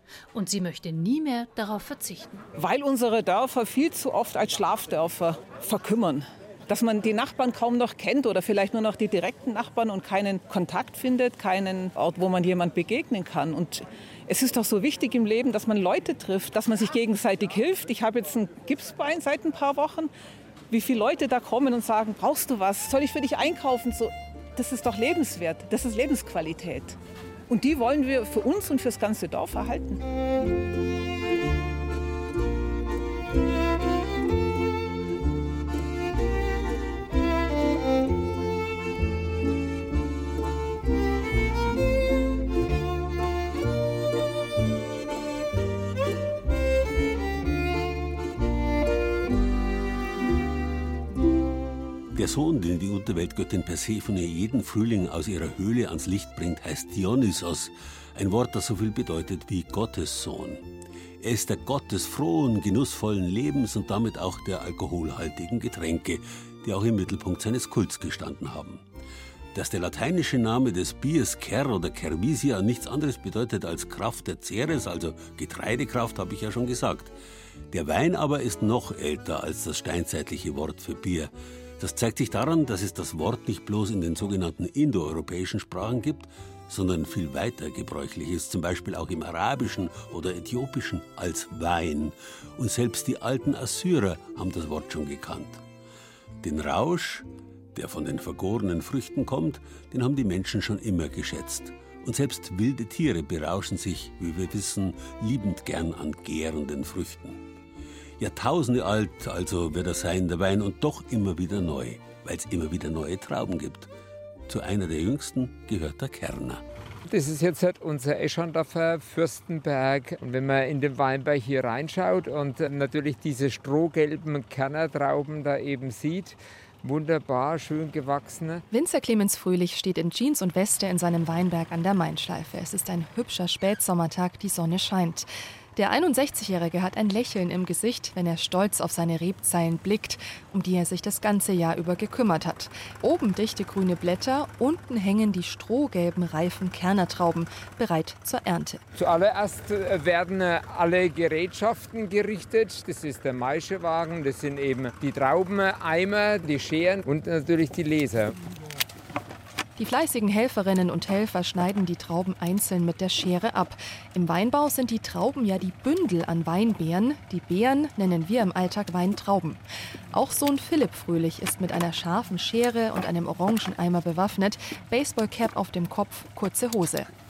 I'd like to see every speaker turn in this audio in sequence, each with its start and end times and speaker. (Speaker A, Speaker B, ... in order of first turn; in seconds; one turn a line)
Speaker A: 0.3-2.5
Speaker B: 2.5-20.1
Speaker B: 20.7-27.0
Speaker B: 27.5-30.0
Speaker C: 52.1-60.6
Speaker C: 61.2-68.8
Speaker C: 69.5-77.1
Speaker C: 77.7-95.6
Speaker C: 96.4-107.4
Speaker C: 108.2-113.9
Speaker C: 114.5-116.6
Speaker D: 117.1-128.6
Speaker E: 128.7-148.8
Speaker D: 148.9-158.3
Speaker E: 159.8-169.6
Speaker E: 170.1-177.1